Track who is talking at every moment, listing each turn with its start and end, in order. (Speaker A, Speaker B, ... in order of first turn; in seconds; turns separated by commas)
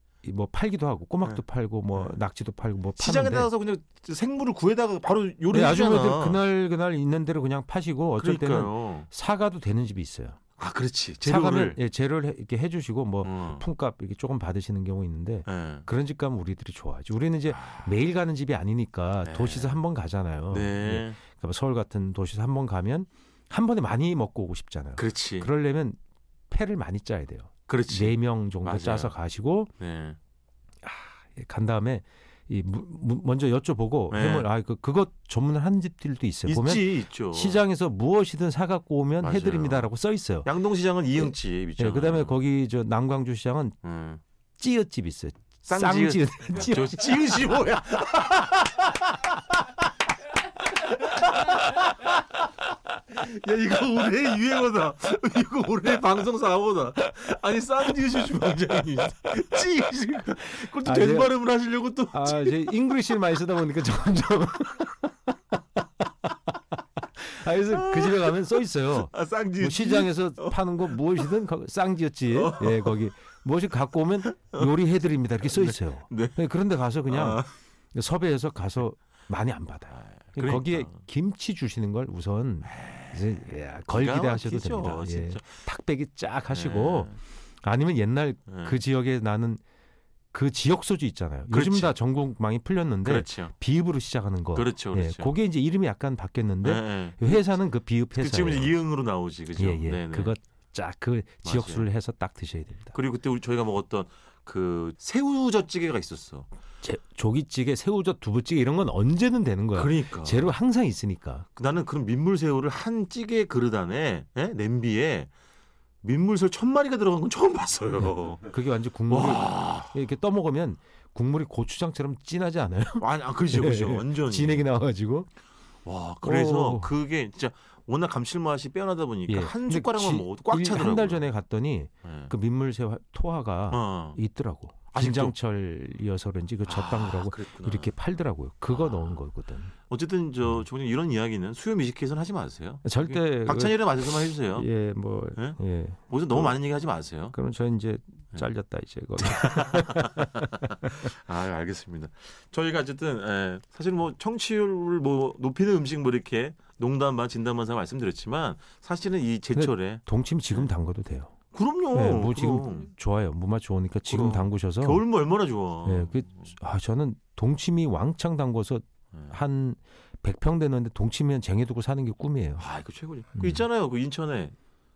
Speaker A: 0.2-3.5, Speaker B: 3.0-6.4, Speaker A: 5.5-10.4, Speaker B: 8.2-9.1, Speaker B: 10.6-11.8, Speaker A: 11.2-26.0, Speaker B: 13.2-13.6, Speaker B: 15.5-15.9, Speaker B: 17.5-17.9, Speaker B: 19.2-19.8, Speaker B: 20.5-21.2, Speaker B: 25.0-25.5, Speaker A: 26.5-29.7, Speaker B: 27.7-29.1, Speaker B: 29.8-30.2, Speaker A: 30.8-40.5, Speaker B: 34.1-34.5, Speaker B: 36.4-37.6, Speaker B: 39.2-39.9, Speaker B: 40.4-42.3, Speaker A: 41.2-43.8, Speaker B: 43.8-44.2, Speaker A: 44.6-47.4, Speaker B: 45.6-49.3, Speaker B: 50.7-52.3, Speaker B: 53.1-62.7, Speaker A: 60.8-61.3, Speaker A: 62.1-65.1, Speaker A: 67.2-89.6, Speaker B: 67.7-71.3, Speaker B: 72.3-73.0, Speaker B: 74.2-74.7, Speaker B: 75.5-76.4, Speaker B: 77.1-77.5, Speaker B: 80.0-81.0, Speaker B: 82.7-85.6, Speaker B: 86.5-87.2, Speaker B: 88.5-88.8, Speaker A: 90.3-98.7, Speaker B: 91.5-91.9, Speaker B: 93.0-93.5, Speaker B: 94.5-95.3, Speaker B: 96.6-97.4, Speaker B: 98.2-100.3, Speaker A: 99.5-102.9, Speaker B: 101.4-101.9, Speaker B: 102.9-106.5, Speaker A: 106.8-111.5, Speaker B: 109.7-110.5, Speaker B: 111.5-115.3, Speaker B: 116.0-118.5, Speaker A: 118.0-125.3, Speaker B: 119.1-119.9, Speaker B: 123.0-124.7, Speaker B: 125.8-131.2, Speaker A: 126.2-126.9, Speaker A: 129.3-139.7, Speaker B: 132.0-132.3, Speaker B: 133.7-134.2, Speaker B: 134.9-135.3, Speaker B: 136.7-137.9, Speaker B: 138.7-139.2, Speaker B: 139.9-144.7, Speaker A: 142.8-146.6, Speaker B: 146.1-147.3, Speaker A: 147.3-150.9, Speaker B: 149.2-160.7, Speaker A: 159.5-161.3, Speaker B: 161.5-162.9, Speaker A: 161.9-165.0, Speaker B: 164.1-166.5, Speaker A: 165.8-172.7, Speaker B: 172.6-174.5, Speaker A: 173.4-173.6